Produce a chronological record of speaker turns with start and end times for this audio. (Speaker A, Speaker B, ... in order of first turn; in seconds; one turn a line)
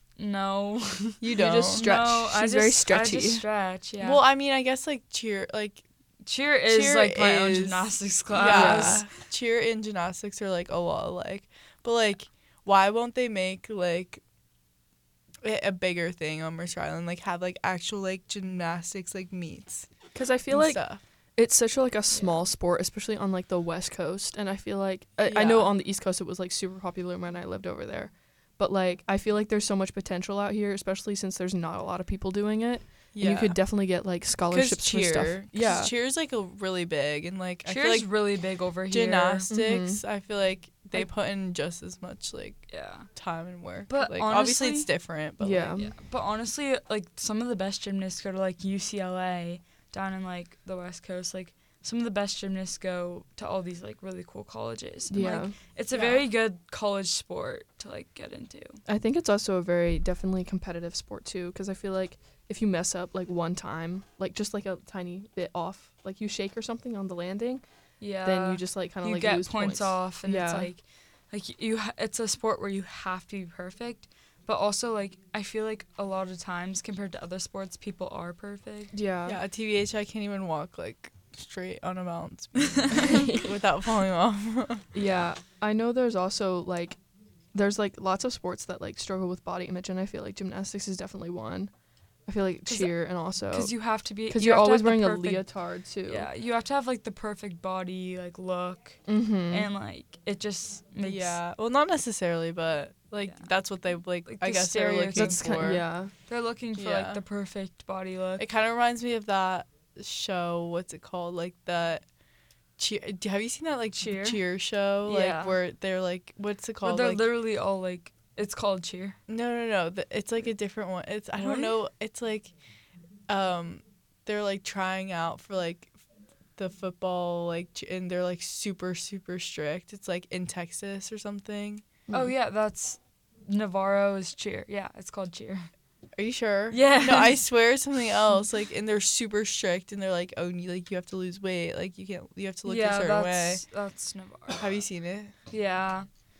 Speaker A: 0.2-4.2
Speaker B: 1.2-1.9
Speaker C: 1.3-3.5
Speaker B: 4.0-5.8
Speaker A: 6.2-9.1
Speaker B: 6.7-14.2
Speaker C: 8.5-9.0
Speaker B: 15.4-19.9
Speaker C: 20.1-35.9
Speaker B: 20.5-21.0
Speaker A: 22.1-22.4
Speaker B: 25.2-25.7
Speaker B: 33.1-33.6
Speaker B: 34.5-45.8
Speaker A: 37.7-39.5
Speaker C: 39.5-40.0
Speaker A: 42.7-43.1
Speaker A: 43.9-44.9
Speaker C: 45.4-46.0
Speaker A: 45.8-58.8
Speaker C: 55.1-56.2
Speaker C: 58.9-67.6
Speaker A: 68.0-78.9
Speaker C: 68.2-70.7
Speaker C: 78.9-79.4
Speaker B: 79.3-84.9
Speaker C: 84.9-87.0
Speaker C: 87.5-91.7
Speaker C: 92.3-96.3
Speaker A: 92.7-95.5
Speaker A: 96.0-101.4
Speaker C: 99.1-99.7
Speaker B: 101.0-105.8
Speaker A: 103.2-103.5
Speaker A: 104.2-108.5
Speaker C: 105.1-106.1
Speaker B: 106.8-107.2
Speaker B: 108.4-112.0
Speaker B: 112.8-117.3
Speaker A: 114.0-115.6
Speaker A: 116.8-119.2
Speaker B: 119.3-122.5
Speaker A: 121.4-121.8
Speaker B: 123.3-126.0
Speaker B: 126.6-131.8
Speaker C: 132.1-132.3
Speaker A: 132.1-135.7
Speaker B: 136.2-143.6
Speaker A: 136.7-137.4
Speaker A: 142.7-144.8
Speaker B: 144.6-145.3
Speaker A: 145.5-146.1